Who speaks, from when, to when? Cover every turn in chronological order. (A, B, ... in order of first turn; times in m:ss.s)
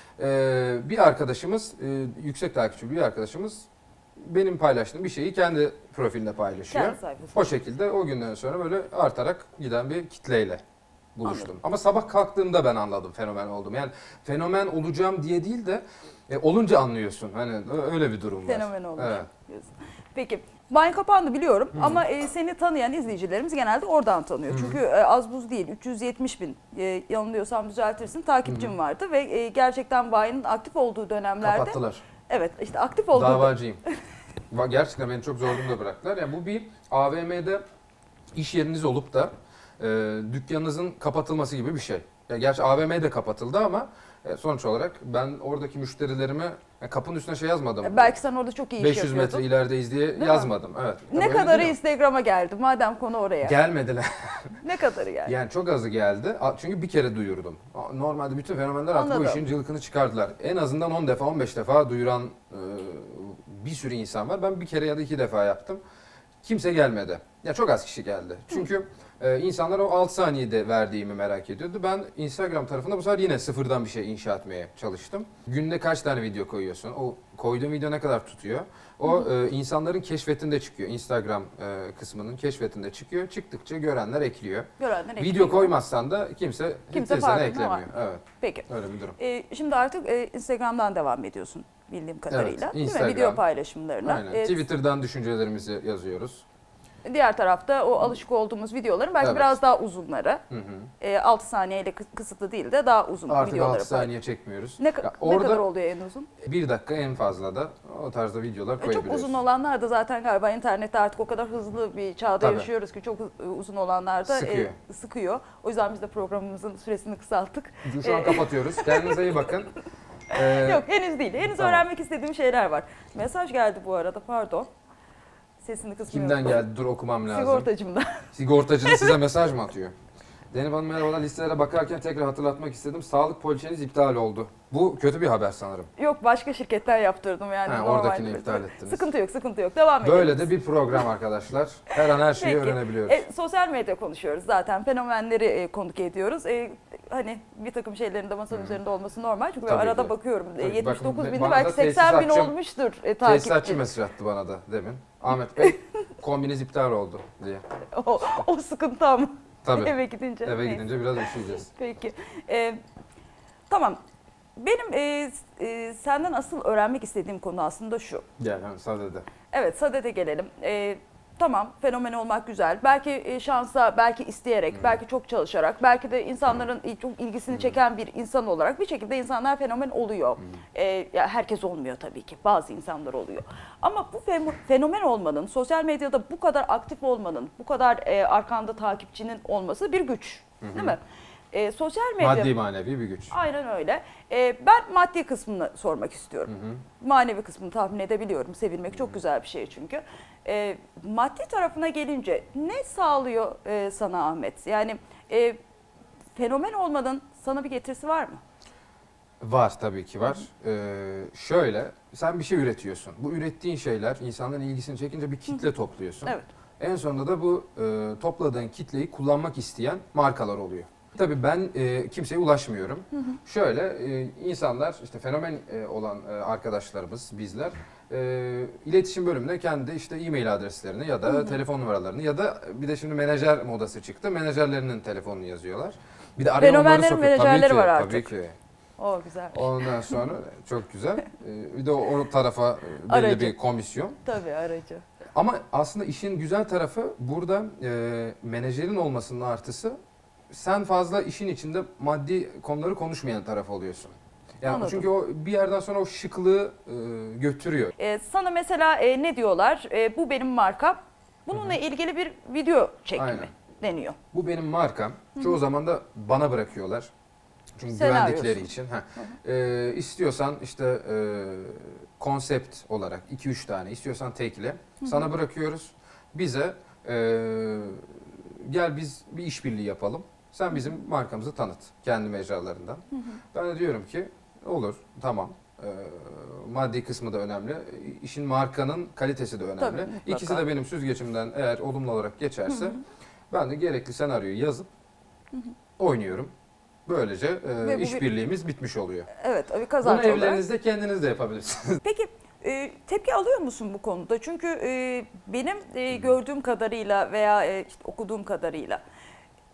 0:00.2-0:03.7 A
0:04.2-0:10.6 A
0:06.7-0:07.5 B
0:11.2-0:19.3 A
0:11.2-0:11.5 B
0:18.4-0:33.6 B
0:21.7-0:22.0 A
0:24.5-0:24.8 A
0:28.4-0:28.8 A
0:31.4-0:32.0 A
0:33.1-0:33.8 A
0:34.5-0:37.6 A
0:38.4-0:48.2 A
0:47.8-0:49.5 B
0:48.8-0:51.8 A
0:50.2-0:50.5 B
0:51.1-0:53.6 B
0:53.4-0:54.6 A
0:54.6-0:55.3 B
0:55.3-1:05.8 A
0:58.9-0:59.4 B
1:06.4-1:24.7 A
1:24.8-1:25.7 B
1:25.2-1:29.2 A
1:26.9-1:28.7 B
1:29.2-1:34.6 B
1:32.3-1:33.4 A
1:34.0-1:36.4 A
1:37.0-1:40.4 B
1:39.2-1:39.6 A
1:40.5-1:40.9 A
1:41.0-1:44.1 B
1:43.3-1:45.6 A
1:44.8-1:46.3 B
1:46.4-1:49.4 A
1:48.8-1:59.4 B
1:52.4-1:52.7 A
1:54.2-1:54.8 A
1:57.8-1:59.8 A
2:00.3-2:00.9 A
2:00.4-2:04.7 B
2:01.4-2:01.9 A
2:05.6-2:06.6 B
2:06.1-2:07.7 A
2:07.3-2:08.3 B
2:08.3-2:09.9 A
2:08.8-2:09.2 B
2:10.5-2:15.9 A
2:16.0-2:20.5 B
2:17.7-2:19.1 A
2:20.0-2:23.2 A
2:22.3-2:33.8 B
2:28.5-2:28.8 A
2:29.7-2:32.6 A
2:33.2-2:37.6 A
2:37.9-2:42.8 B
2:39.6-2:41.7 A
2:43.7-2:44.0 B
2:44.6-2:48.2 B
2:48.4-2:49.3 A
2:49.5-3:11.0 B
2:54.7-2:55.0 A
2:57.5-2:57.8 A
3:10.6-3:11.0 A
3:11.5-3:12.5 B
3:12.2-3:13.3 A
3:13.3-3:25.6 B
3:16.5-3:16.8 A
3:18.9-3:19.2 A
3:26.4-3:28.4 B
3:29.4-3:58.6 A
3:51.3-3:51.6 B
3:56.6-3:58.3 B
3:59.0-4:00.2 B
3:59.5-4:04.2 A
4:03.1-4:03.5 B
4:04.2-4:05.0 B
4:05.4-4:10.0 A
4:10.5-4:17.9 A
4:14.6-4:15.1 B
4:18.0-4:24.2 B
4:21.5-4:21.8 A
4:23.2-4:23.5 A
4:24.3-4:27.1 A
4:27.8-4:43.0 A
4:27.9-4:29.3 B
4:35.0-4:35.3 B
4:43.5-4:53.0 A
4:49.8-4:50.7 B
4:52.7-4:53.0 B
4:53.5-4:54.9 A
4:56.0-4:56.5 A
4:57.1-4:59.3 A
4:57.8-4:58.2 B
4:59.3-5:00.6 B
5:00.0-5:02.0 A
5:02.0-5:09.0 B